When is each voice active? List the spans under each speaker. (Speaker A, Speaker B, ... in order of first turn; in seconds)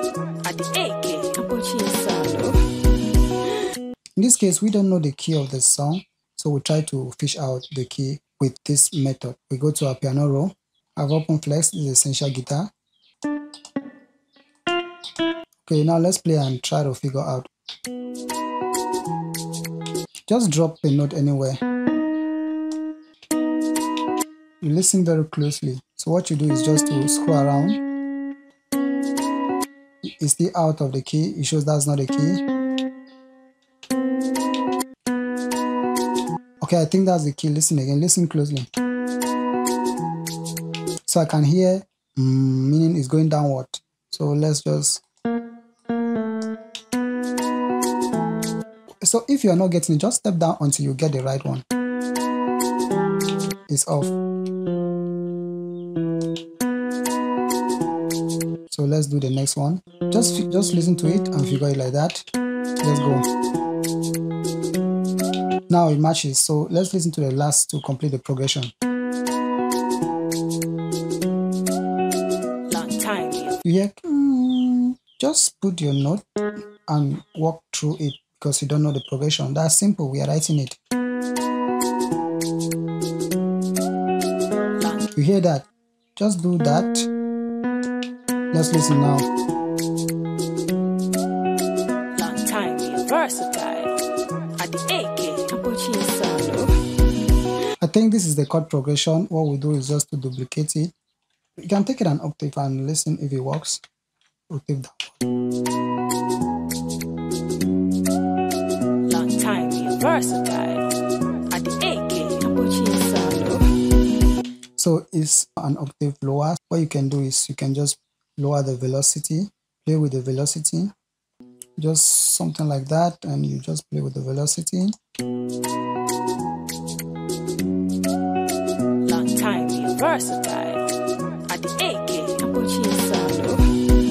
Speaker A: 0.4-2.5, 72.7-73.5, 92.2-93.9, 94.6-96.7, 109.1-110.8, 111.5-113.5, 129.0-130.8, 131.5-133.5
Speaker B: 4.2-12.7, 15.7-17.5, 20.3-21.6, 24.6-27.8, 30.1-32.4, 36.6-38.7, 41.1-45.0, 49.0-51.6, 53.7-54.1, 58.7-62.3, 62.8-63.3, 65.7-68.7, 73.6-76.2, 76.8-80.8, 85.1-87.1, 88.5-89.3, 97.8-100.9, 101.6-103.8, 104.5-105.2, 114.8-120.9, 121.8-125.0